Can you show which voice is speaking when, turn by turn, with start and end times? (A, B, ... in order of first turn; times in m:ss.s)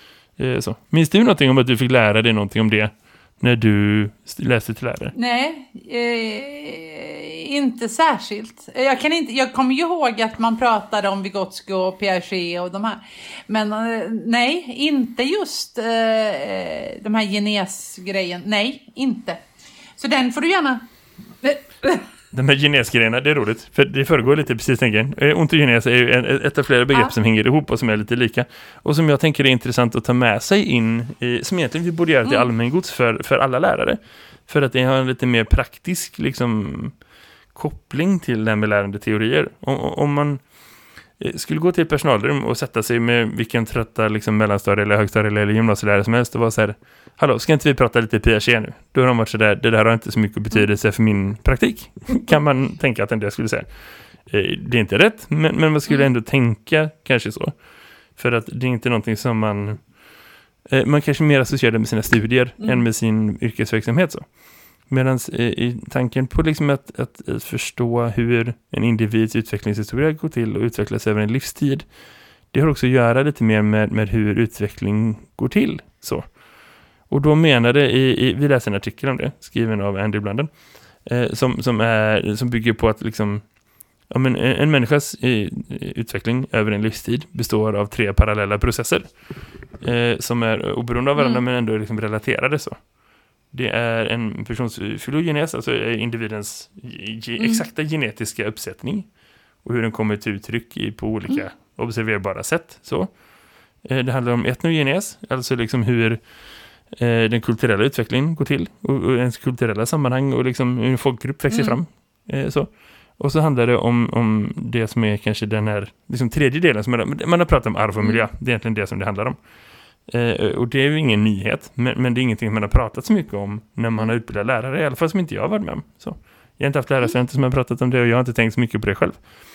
0:00.4-0:05.1 A
0:05.1-0:19.4 B
0:20.0-0:20.8 B
0:21.4-0:22.0 B
0:22.3-0:37.0 A
0:37.5-0:40.4 A
0:41.2-0:53.7 A
0:54.2-0:57.6 A
0:58.2-0:59.9 A
1:00.7-1:04.2 A
1:04.9-1:11.8 A
1:12.5-1:16.3 A
1:17.1-1:20.5 A
1:21.0-1:23.4 A
1:24.1-1:29.1 A
1:29.8-1:32.8 A
1:31.2-1:31.4 B
1:33.5-1:39.1 A
1:39.6-1:43.1 A
1:43.8-1:46.2 A
1:46.9-1:59.4 A
1:51.5-1:51.8 B
2:00.1-2:09.2 A